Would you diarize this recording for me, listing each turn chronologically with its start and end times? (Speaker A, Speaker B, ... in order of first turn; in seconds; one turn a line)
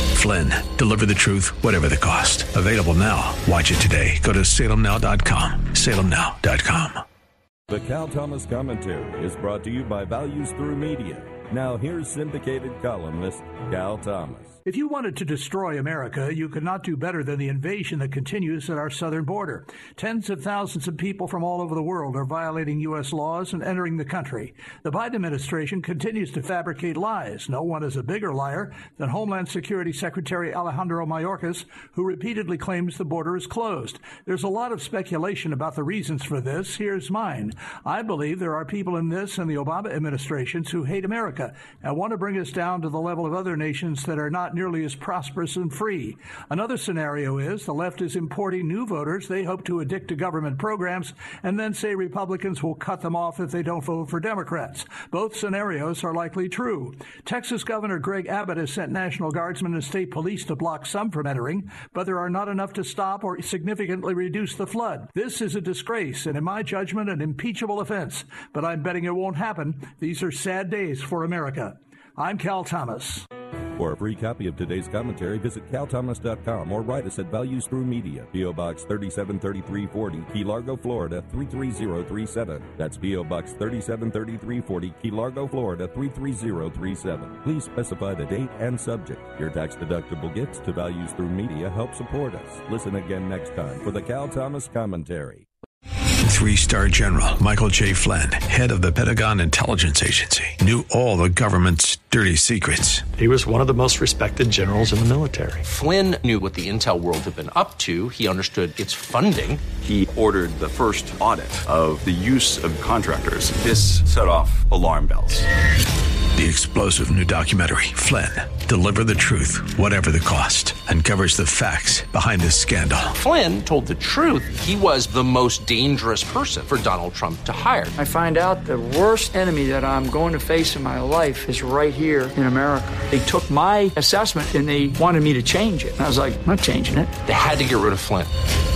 Speaker A: 0.1-7.0
Speaker B: 7.7-14.6
Speaker C: 14.6-73.2
Speaker B: 73.8-95.4
Speaker A: 96.2-103.0
Speaker D: 103.2-105.6
Speaker E: 105.6-109.6
Speaker F: 109.8-115.5
Speaker A: 116.3-123.1
Speaker E: 123.1-127.9
Speaker G: 128.0-137.1
Speaker E: 137.2-138.3